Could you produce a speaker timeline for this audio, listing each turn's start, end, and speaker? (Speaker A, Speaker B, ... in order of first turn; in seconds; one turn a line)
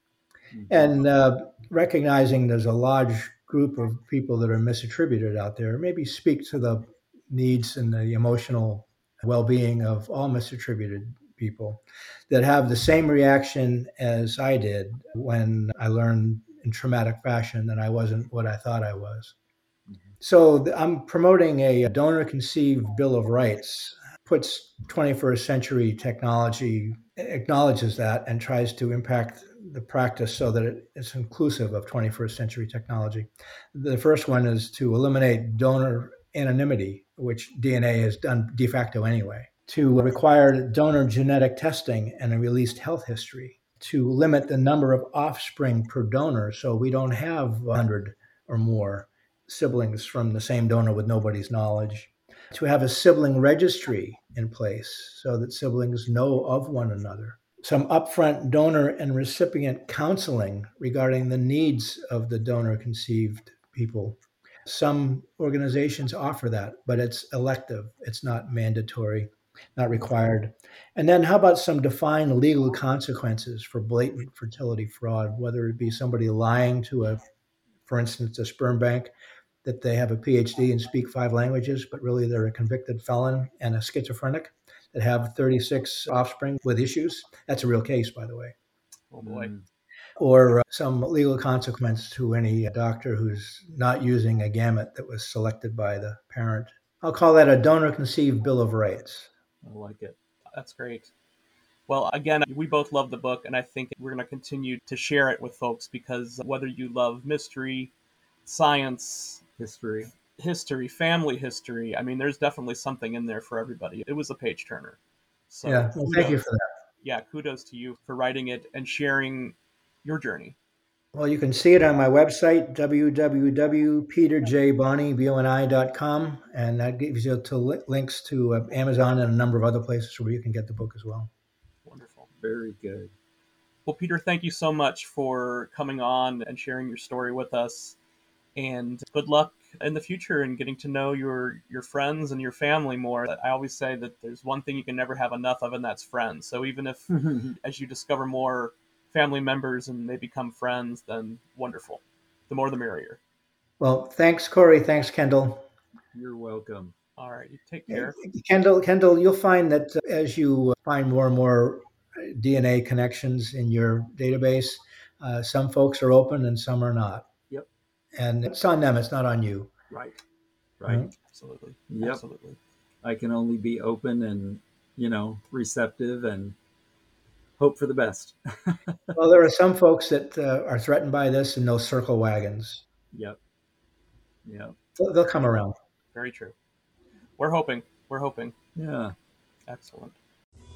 Speaker A: 0.5-0.9
Speaker B: 0.7-19.3
Speaker B: 20.2-77.2
Speaker B: 77.8-79.1
Speaker B: 79.6-88.5
Speaker C: 89.1-89.5
Speaker A: 89.2-89.6
Speaker B: 90.2-99.3
Speaker A: 99.6-100.2
Speaker C: 100.5-101.1
Speaker C: 101.9-107.9
Speaker C: 108.4-109.4
Speaker A: 109.6-110.1
Speaker C: 110.4-115.0
Speaker C: 115.5-116.4
Speaker B: 115.6-116.6
Speaker C: 117.0-120.5
Speaker B: 121.1-131.3
Speaker C: 131.8-132.3
Speaker A: 132.4-133.1
Speaker C: 133.8-137.9
Speaker C: 138.6-153.2
Speaker A: 147.1-147.6
Speaker B: 153.8-155.7
Speaker A: 156.1-156.9
Speaker C: 157.2-158.2
Speaker B: 157.9-167.3
Speaker B: 168.2-169.7
Speaker A: 169.9-170.2
Speaker A: 170.8-171.0
Speaker C: 171.3-172.6
Speaker A: 171.9-172.2
Speaker A: 173.0-176.6
Speaker A: 177.6-179.1
Speaker B: 179.1-182.8
Speaker A: 183.1-183.4
Speaker A: 184.4-184.8
Speaker B: 185.0-185.7
Speaker C: 186.1-186.5
Speaker C: 187.4-188.5
Speaker A: 188.8-189.1
Speaker C: 189.7-190.2